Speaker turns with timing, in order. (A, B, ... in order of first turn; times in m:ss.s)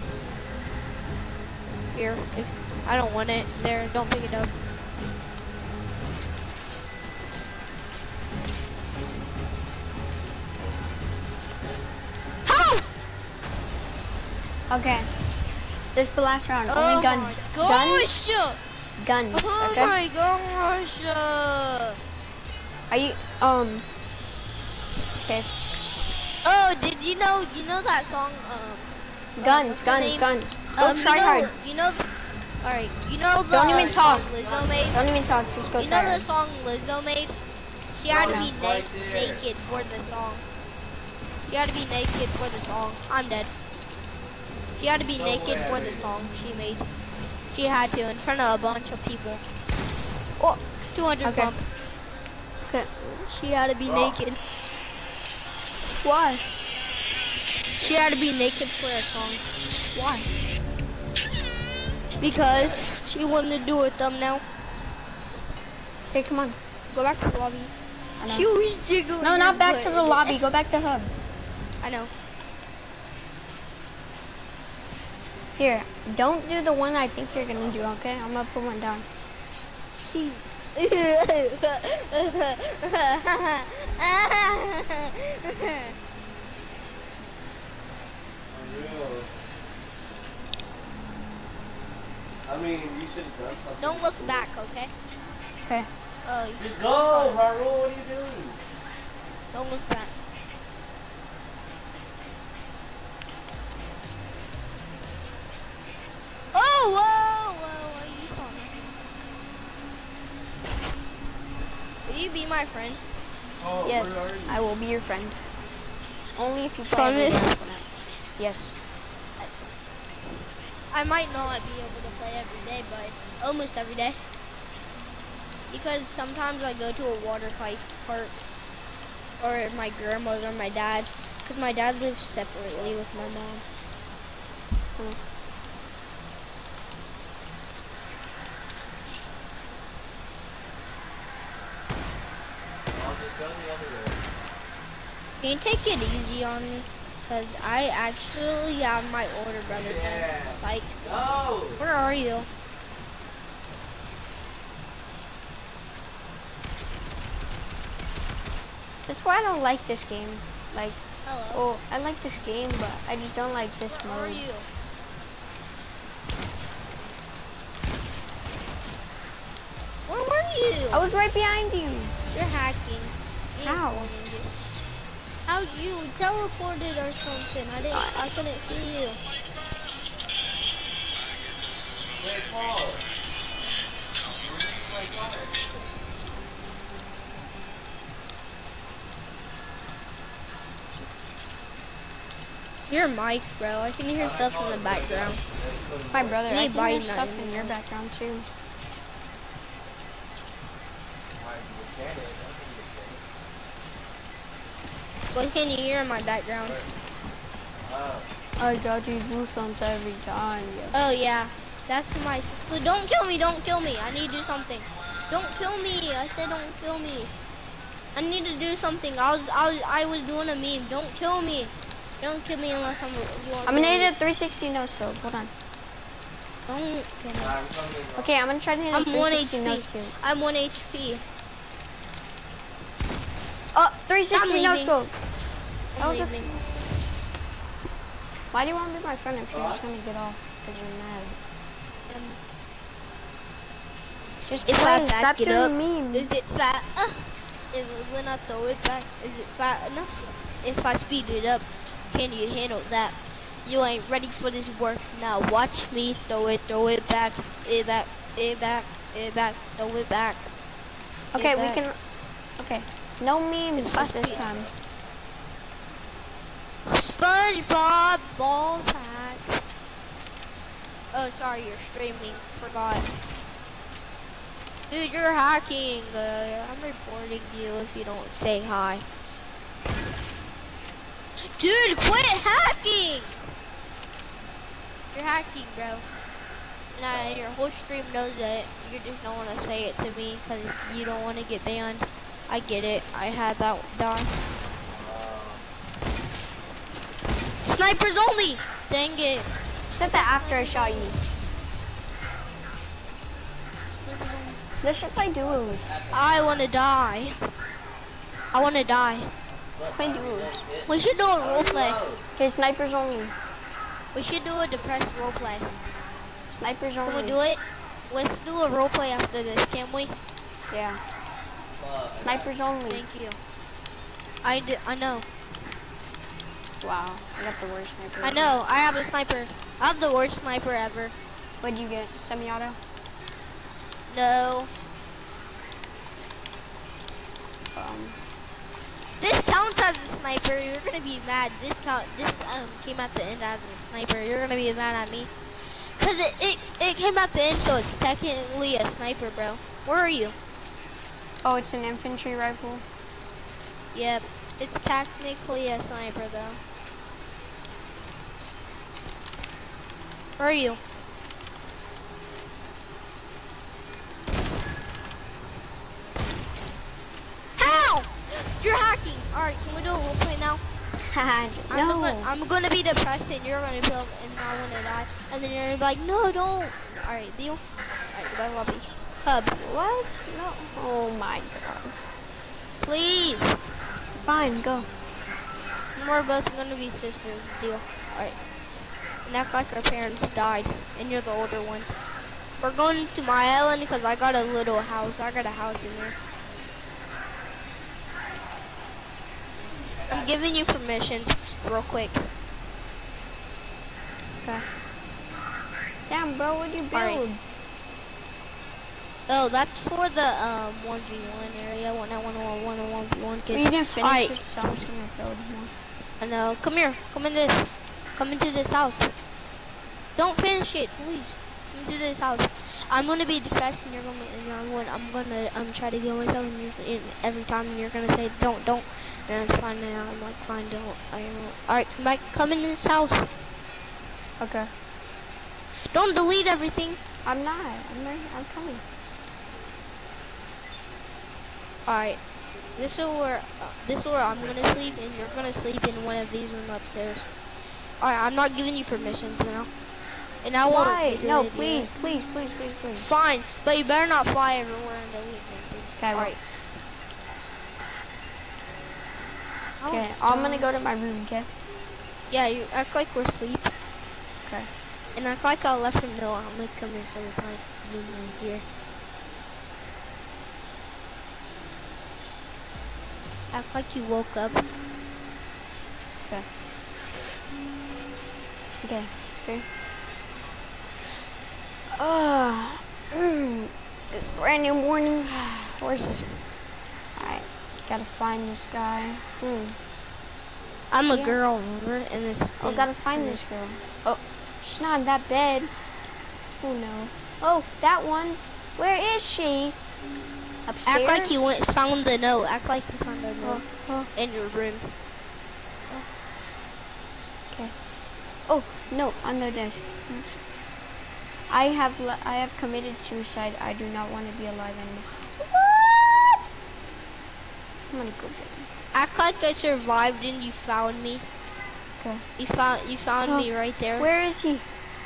0:01.9-0:04.5 A
0:12.4-0:12.8 A
0:14.7-0:15.1 B
0:15.9-0:18.1 B
0:16.7-0:18.6 A
0:19.0-0:19.9 B
0:19.3-0:22.0 A
0:22.9-0:23.8 B
0:25.2-0:25.5 B
0:26.4-0:32.1 A
0:29.4-0:31.5 B
0:32.6-0:35.0 A
0:33.5-0:34.3 B
0:33.6-0:35.8 C
0:34.9-0:36.2 B
0:35.8-0:37.3 A
0:37.9-0:40.4 A
0:38.1-0:40.0 C
0:38.1-0:38.5 B
0:41.5-0:43.5 A
0:44.8-0:46.8 A
0:45.2-0:46.2 C
0:47.5-0:49.4 A
0:50.9-0:51.6 A
0:51.2-0:51.5 B
0:53.2-0:54.4 A
0:53.8-0:54.2 C
0:56.0-0:56.4 B
0:57.8-0:59.4 A
0:59.9-1:00.2 B
1:02.2-1:04.4 A
1:06.1-1:06.6 B
1:06.9-1:07.7 A
1:08.2-1:08.5 B
1:08.3-1:10.4 A
1:09.2-1:11.1 B
1:11.8-1:12.1 A
1:15.6-1:19.0 B
1:17.2-1:18.0 C
1:19.9-1:25.9 A
1:28.5-1:29.3 C
1:32.4-1:34.5 C
1:33.8-1:34.9 A
1:35.6-1:35.9 B
1:36.2-1:37.4 A
1:36.6-1:38.6 C
1:39.5-1:40.1 A
1:46.5-1:49.0 A
1:52.0-1:53.0 A
1:53.6-1:54.6 C
1:53.8-1:55.4 B
1:56.3-1:58.7 B
1:56.9-1:57.6 A
2:00.9-2:04.2 A
2:05.7-2:08.4 A
2:09.4-2:13.6 A
2:12.7-2:13.4 C
2:22.9-2:24.2 C
2:25.4-2:30.9 A
2:29.6-2:31.8 C
2:31.8-2:32.5 A
2:39.1-2:41.0 B
2:41.2-2:41.6 A
2:41.5-2:44.4 B
2:43.9-2:44.7 A
2:50.1-2:51.1 A
2:50.9-2:52.1 B
2:52.3-2:54.6 A
2:53.6-2:54.1 B
2:55.4-2:59.2 A
2:57.9-2:58.2 B
3:02.2-3:03.0 C
3:04.4-3:05.6 C
3:12.9-3:15.4 A
3:14.2-3:16.4 C
3:16.1-3:18.5 B
3:16.5-3:17.7 A
3:21.4-3:23.2 C
3:25.3-3:26.8 A
3:27.8-3:28.3 C
3:28.6-3:31.0 B
3:30.9-3:37.3 A
3:38.1-3:44.1 A
3:43.6-3:45.5 B
3:46.7-3:47.5 A
3:47.4-3:48.3 C
3:48.2-3:50.1 B
3:48.9-3:51.2 A
3:53.7-3:55.1 B
3:54.3-3:54.9 A
3:55.9-3:56.5 A
3:56.0-3:56.6 B
3:58.5-4:01.4 B
3:59.5-3:59.8 C
4:02.1-4:02.4 A
4:04.5-4:06.3 B
4:04.6-4:20.5 A
4:21.3-4:21.8 A
4:21.3-4:22.0 B
4:22.6-4:24.7 B
4:23.8-4:24.4 A
4:24.2-4:24.8 C
4:26.8-4:29.6 A
4:31.1-4:33.0 A
4:34.9-4:39.0 A
4:41.4-4:43.4 A
4:45.1-4:46.0 A
4:46.9-4:54.3 A
4:47.1-4:47.5 C
4:54.9-4:55.7 C
4:57.6-5:01.2 A
4:59.9-5:01.2 B
5:03.9-5:04.6 A
5:04.8-5:06.0 B
5:05.3-5:06.7 C
5:06.1-5:07.4 A
5:08.5-5:09.3 A
5:09.7-5:12.2 C
5:09.9-5:10.5 B
5:10.9-5:12.0 A
5:12.4-5:13.3 B
5:14.1-5:15.7 A
5:16.5-5:17.4 B
5:17.0-5:20.1 A
5:20.7-5:21.0 B
5:21.7-5:22.5 C
5:22.2-5:23.0 B
5:22.9-5:23.4 A
5:24.4-5:25.2 A
5:26.8-5:28.5 B
5:28.2-5:31.1 A
5:31.6-5:32.8 B
5:34.1-5:34.7 A
5:37.7-5:38.2 B
5:39.2-5:50.3 A
5:51.4-5:52.8 B
5:53.9-5:56.6 A
6:00.4-6:00.8 A
6:07.6-6:10.6 A
6:11.0-6:12.3 B
6:11.7-6:19.6 A
6:19.6-6:22.0 B
6:22.8-6:23.6 A
6:24.2-6:24.9 B
6:26.0-6:28.3 A
6:29.2-6:31.9 A
6:32.6-6:36.2 A
6:39.6-6:40.3 C
6:40.1-6:42.3 A
6:46.1-6:47.4 B
6:46.9-6:47.2 A
6:49.3-6:54.4 A
6:53.5-6:55.7 B
6:56.2-6:59.1 A
7:00.2-7:13.3 A
7:14.4-7:14.7 B
7:15.8-7:17.0 A
7:17.2-7:18.8 B
7:21.8-7:22.2 A
7:22.8-7:27.2 A
7:24.3-7:25.6 C
7:28.0-7:29.7 A
7:30.4-7:31.9 A
7:30.7-7:33.1 B
7:33.0-7:36.4 A
7:36.0-7:36.3 B
7:39.8-7:40.7 A
7:39.8-7:41.5 B
7:42.3-7:43.7 A
7:45.2-7:48.6 A
7:53.5-7:54.6 A
7:58.8-7:59.6 B
8:01.9-8:06.3 B
8:07.2-8:09.8 B
8:10.9-8:13.4 A
8:11.1-8:11.4 B
8:12.6-8:15.8 B
8:16.6-8:19.8 B
8:20.6-8:21.4 B
8:20.8-8:23.6 A
8:23.4-8:24.1 B
8:24.1-8:24.9 A
8:28.5-8:30.4 B
8:31.5-8:36.2 B
8:37.9-8:38.7 B
8:38.9-8:41.2 A
8:42.0-8:42.2 B
8:42.4-8:44.1 A
8:43.2-8:44.6 B